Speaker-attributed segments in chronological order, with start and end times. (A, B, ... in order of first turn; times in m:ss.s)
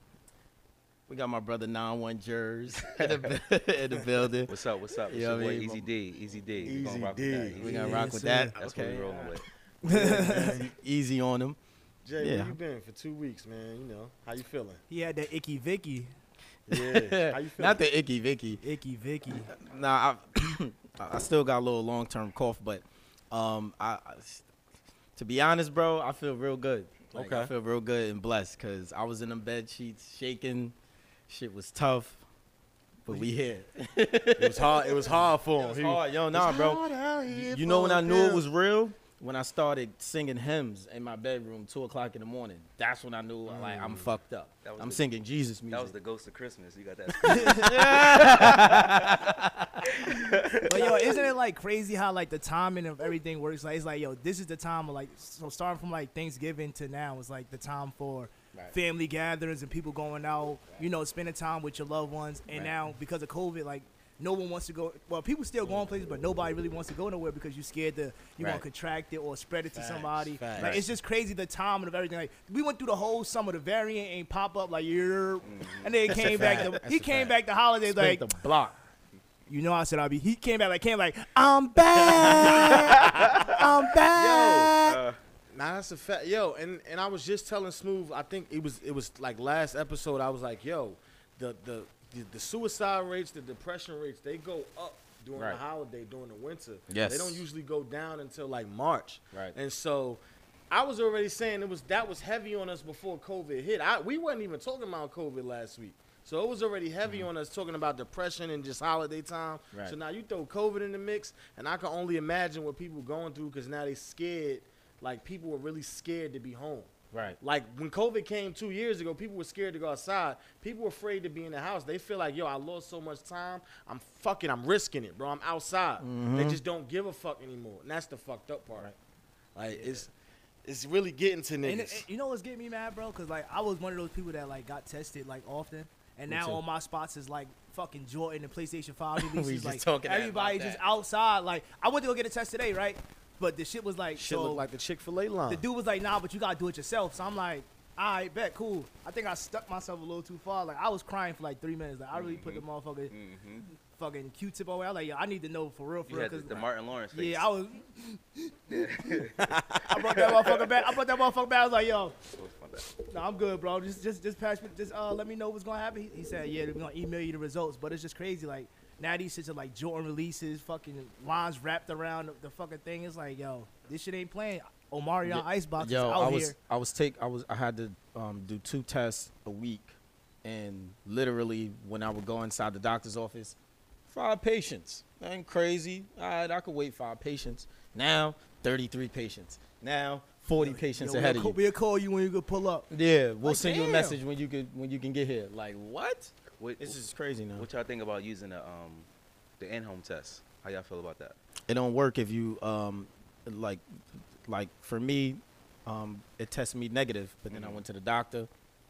0:01.1-0:04.5 A
0:02.9-0:03.2 B
0:04.5-0:08.0 B
0:05.0-0:05.9 A
0:06.6-0:07.8 C
0:07.6-0:09.2 A
0:07.6-0:08.6 D
0:08.6-0:09.4 B
0:09.8-0:10.6 D
0:09.8-0:11.6 A
0:10.1-0:10.4 C
0:12.0-0:14.8 C
0:12.2-0:12.6 A
0:14.9-0:16.1 D
0:16.7-0:17.8 C
0:16.7-0:18.6 A
0:18.6-0:19.5 D
0:19.5-0:24.4 A
0:25.2-0:30.7 A
0:27.1-0:27.5 C
0:31.3-0:32.2 A
0:33.0-0:45.9 A
0:34.4-0:38.4 C
0:43.5-0:44.1 C
0:44.6-0:45.0 B
0:45.7-0:49.2 B
0:47.2-0:50.9 A
0:49.9-0:50.6 B
0:50.6-1:18.3 D
1:02.5-1:02.8 A
1:09.8-1:10.8 C
1:10.6-1:10.8 A
1:15.4-1:15.9 B
1:16.1-1:17.3 A
1:17.9-1:18.8 A
1:19.5-1:25.0 D
1:22.1-1:23.5 C
1:22.7-1:23.2 B
1:24.1-1:24.7 C
1:24.8-1:25.2 B
1:25.5-2:08.9 C
1:35.3-1:35.6 A
1:36.9-1:37.4 A
1:57.1-1:57.4 A
2:06.0-2:06.6 A
2:09.5-2:10.1 C
2:09.7-2:10.0 A
2:10.6-2:12.0 C
2:11.6-2:24.6 D
2:16.3-2:16.6 A
2:19.2-2:20.8 A
2:24.2-2:25.6 C
2:25.5-2:33.1 D
2:32.1-2:33.7 B
2:33.9-2:42.2 D
2:36.1-2:37.5 B
2:38.7-2:39.4 B
2:39.4-2:40.2 C
2:42.3-2:42.9 B
2:43.0-2:56.5 D
2:55.2-3:03.5 A
3:04.1-3:11.6 A
3:10.6-3:12.9 D
3:12.9-3:17.7 A
3:13.4-3:14.2 D
3:16.6-3:17.0 B
3:17.6-3:19.1 B
3:19.6-3:21.4 B
3:21.7-3:23.8 A
3:24.4-3:28.5 A
3:27.5-3:27.8 B